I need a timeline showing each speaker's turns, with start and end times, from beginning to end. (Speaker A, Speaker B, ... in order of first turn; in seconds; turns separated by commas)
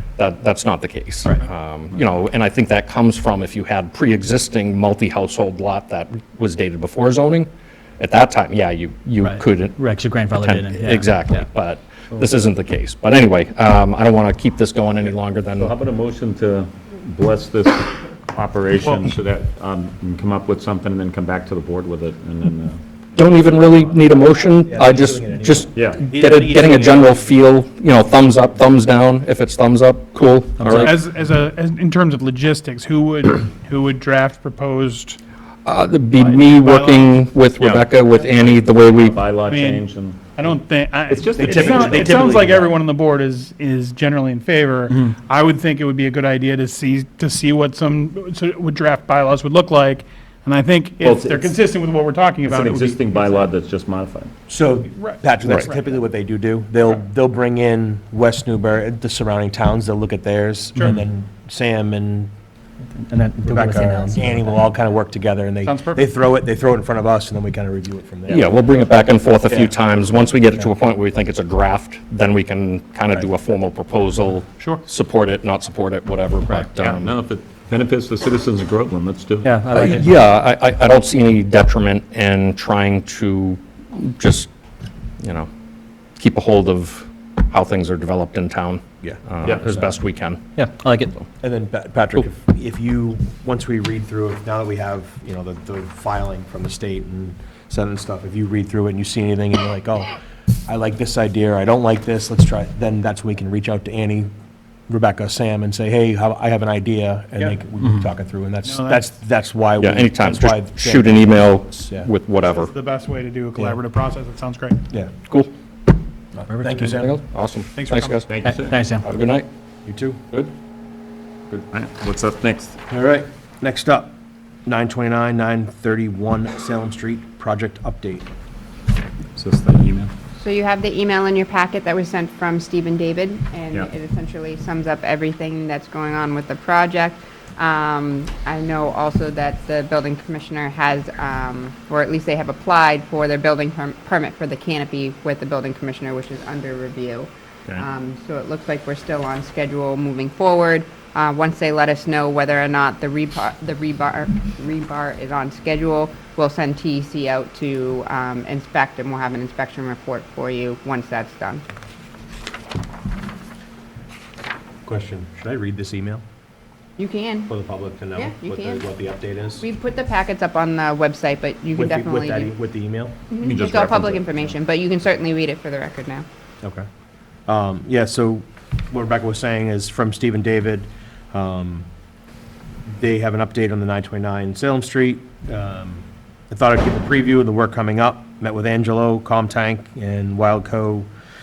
Speaker A: 0.2-15.7, Speaker B: 9.2-11.4, Speaker C: 15.6-24.0, Speaker A: 23.1-30.9, Speaker D: 24.6-27.3, Speaker C: 25.8-26.0, Speaker B: 30.6-30.9, Speaker E: 30.7-35.2, Speaker A: 35.6-39.2, Speaker E: 36.2-37.1, Speaker C: 37.5-40.5, Speaker E: 39.4-53.4, Speaker C: 41.1-42.3, Speaker D: 41.3-42.7, Speaker C: 52.5-54.3, Speaker D: 54.5-62.3, Speaker E: 54.9-55.7, Speaker B: 62.9-64.6, Speaker D: 63.4-68.5, Speaker E: 65.6-66.1, Speaker A: 68.3-77.1, Speaker E: 74.6-74.8, Speaker C: 76.8-79.7, Speaker B: 79.4-80.2, Speaker A: 79.7-84.5, Speaker A: 85.2-85.5, Speaker A: 86.2-91.2, Speaker C: 89.4-89.7, Speaker B: 90.5-91.1, Speaker D: 91.4-100.1, Speaker D: 100.7-104.3, Speaker D: 104.9-112.1, Speaker E: 108.6-109.1, Speaker A: 109.8-112.7, Speaker E: 112.4-114.8, Speaker D: 116.3-117.2, Speaker B: 116.5-117.0, Speaker A: 116.9-118.2, Speaker E: 117.7-118.2, Speaker C: 118.3-118.8, Speaker B: 118.4-119.0, Speaker A: 118.9-119.5, Speaker D: 119.8-120.2, Speaker C: 121.5-122.7, Speaker D: 122.9-128.3, Speaker C: 129.3-130.1, Speaker F: 130.4-161.6, Speaker D: 164.8-166.2, Speaker F: 167.0-167.5, Speaker D: 167.5-169.7, Speaker F: 168.1-168.8, Speaker F: 169.6-172.5, Speaker D: 171.8-173.2, Speaker F: 173.3-176.2, Speaker C: 173.4-174.5, Speaker D: 177.4-181.9, Speaker D: 182.9-191.1